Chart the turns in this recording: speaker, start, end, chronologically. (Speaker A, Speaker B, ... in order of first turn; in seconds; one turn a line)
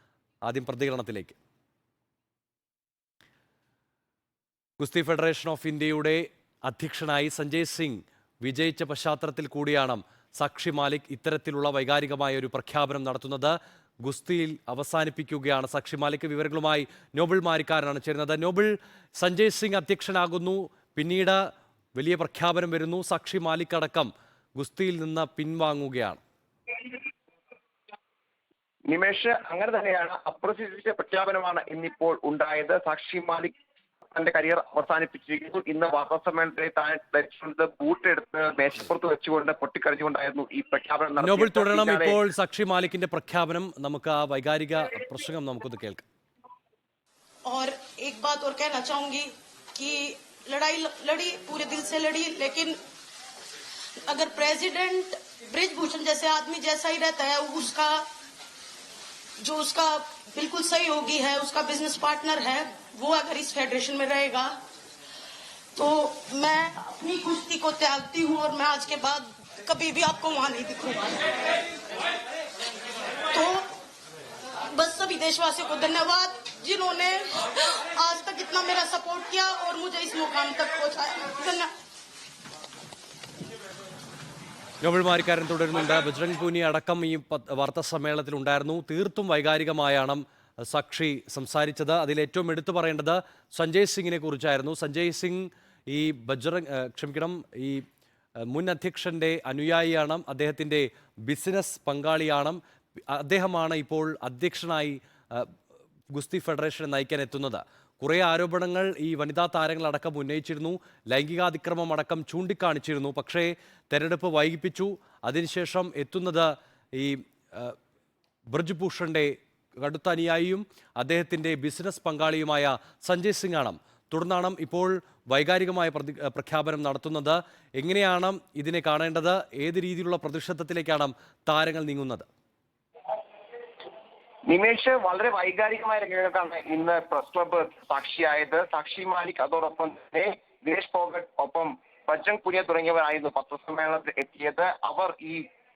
Speaker A: 0.5-1.4
Speaker A: 4.8-21.4
Speaker A: 22.0-26.2
Speaker B: 28.9-33.5
Speaker B: 34.1-42.2
Speaker A: 41.2-46.0
Speaker C: 47.5-52.8
Speaker C: 54.1-58.0
Speaker C: 59.4-64.5
Speaker C: 65.8-71.6
Speaker C: 73.3-73.7
Speaker C: 74.7-81.7
Speaker A: 84.8-97.8
Speaker A: 98.5-105.5
Speaker A: 106.1-117.8
Speaker A: 118.5-132.3
Speaker B: 134.5-145.4